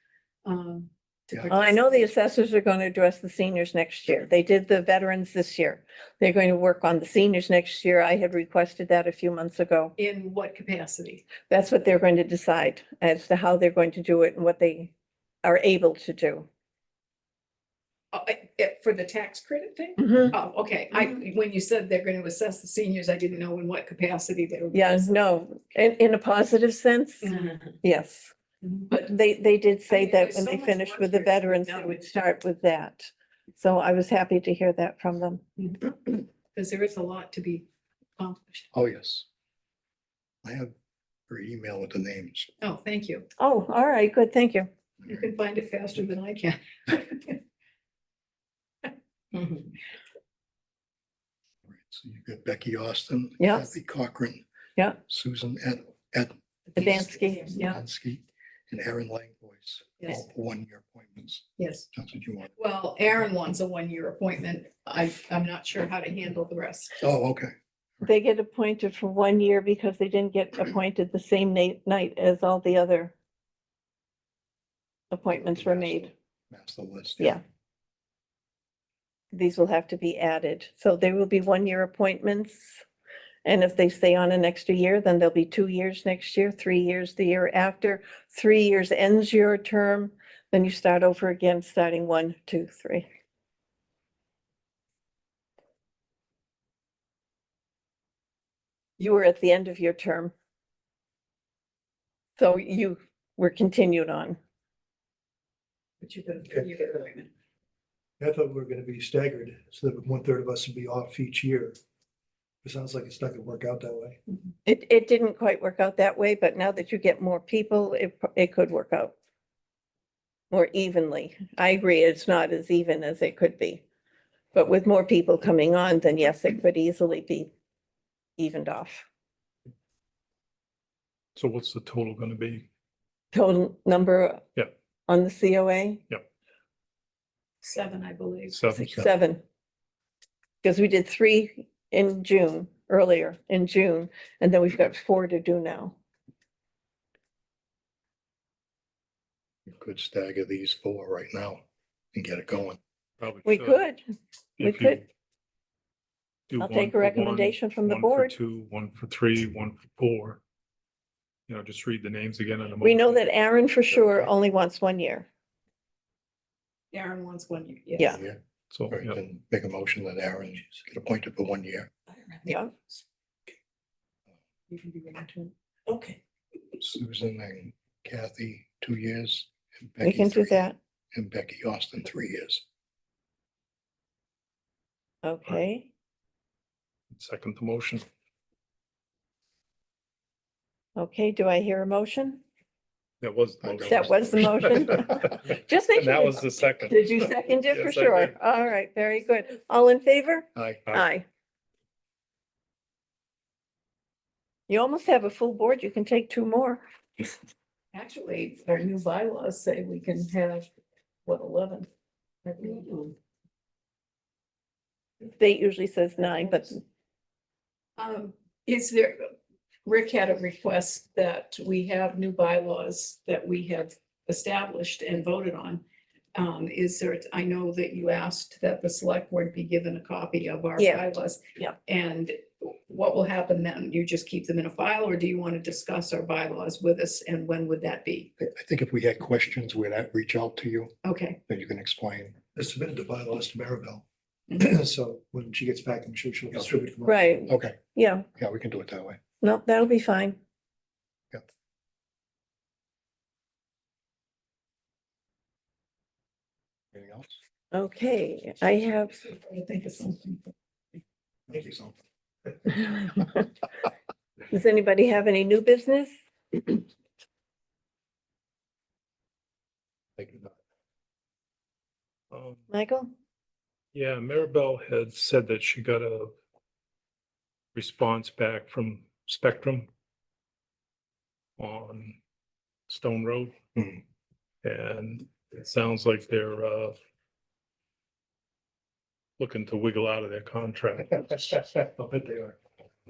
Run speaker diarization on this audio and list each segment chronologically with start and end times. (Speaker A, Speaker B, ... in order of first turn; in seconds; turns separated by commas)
Speaker A: 0.4-2.1, Speaker B: 1.3-1.6, Speaker C: 1.5-9.9, Speaker A: 10.0-11.3, Speaker C: 11.5-14.9, Speaker C: 15.4-16.5, Speaker A: 18.1-25.1, Speaker C: 20.0-20.3, Speaker C: 24.7-28.3, Speaker A: 27.2-27.7, Speaker A: 28.6-28.9, Speaker C: 28.9-35.4, Speaker A: 29.9-32.1, Speaker A: 35.6-37.7, Speaker A: 38.2-38.7, Speaker B: 38.7-39.2, Speaker B: 40.4-40.7, Speaker B: 41.3-42.5, Speaker A: 42.6-43.2, Speaker C: 43.4-44.7, Speaker A: 45.0-47.4, Speaker A: 49.3-49.7, Speaker B: 51.7-54.4, Speaker C: 53.4-53.7, Speaker B: 55.1-62.5, Speaker C: 56.7-57.7, Speaker A: 56.8-57.7, Speaker A: 61.6-61.9, Speaker A: 62.5-67.0, Speaker B: 67.0-68.1, Speaker C: 68.0-73.1, Speaker C: 75.1-76.1, Speaker B: 75.3-77.4, Speaker C: 79.3-82.8, Speaker C: 83.4-93.0, Speaker C: 99.0-100.3, Speaker C: 102.4-104.4, Speaker A: 106.0-107.3, Speaker D: 108.2-111.8, Speaker D: 112.6-114.2, Speaker C: 114.7-119.1, Speaker C: 120.5-123.8, Speaker C: 124.5-127.5, Speaker C: 128.4-129.0, Speaker E: 131.3-132.7, Speaker C: 133.3-134.4, Speaker C: 135.1-136.0, Speaker A: 137.6-138.6, Speaker E: 138.5-139.1, Speaker C: 138.7-139.4, Speaker C: 140.6-145.9, Speaker B: 149.7-151.6, Speaker B: 152.1-152.8, Speaker E: 153.2-153.9, Speaker C: 153.4-154.0, Speaker C: 154.6-155.0, Speaker E: 154.6-155.1, Speaker E: 156.5-160.4, Speaker C: 156.6-158.3, Speaker E: 161.5-163.3, Speaker C: 162.8-165.3, Speaker E: 163.9-164.3, Speaker A: 166.9-168.2, Speaker B: 168.1-168.4, Speaker E: 168.7-169.2, Speaker B: 168.9-171.9, Speaker C: 172.4-172.7, Speaker A: 174.7-175.5, Speaker B: 176.8-182.6, Speaker C: 180.0-180.8, Speaker C: 185.2-185.9, Speaker E: 187.1-188.0, Speaker C: 190.9-192.4, Speaker E: 193.2-195.4, Speaker B: 193.6-195.3, Speaker C: 193.9-201.2, Speaker E: 195.9-198.3, Speaker B: 200.6-200.8, Speaker C: 204.7-206.8, Speaker A: 207.9-210.7, Speaker A: 211.2-211.9, Speaker A: 212.4-213.1, Speaker C: 215.2-216.8, Speaker A: 218.0-219.3, Speaker A: 219.8-225.8, Speaker A: 226.3-238.3, Speaker C: 230.8-231.0, Speaker B: 238.4-240.9, Speaker A: 241.0-241.4, Speaker B: 241.5-242.4, Speaker D: 242.5-244.0, Speaker D: 244.6-247.2, Speaker C: 247.0-248.3, Speaker B: 247.5-247.8, Speaker B: 248.3-249.2, Speaker C: 249.4-250.4, Speaker B: 256.9-257.4, Speaker C: 257.7-259.2, Speaker A: 259.2-260.5, Speaker B: 261.5-262.0, Speaker C: 262.7-263.4, Speaker C: 264.5-266.8, Speaker B: 270.2-270.5, Speaker E: 272.3-272.6, Speaker C: 272.7-273.1, Speaker E: 273.9-276.3, Speaker E: 277.7-279.9, Speaker E: 281.6-282.2, Speaker E: 282.9-283.5, Speaker B: 283.8-284.0, Speaker E: 284.6-287.0, Speaker E: 289.4-291.5, Speaker B: 291.4-292.6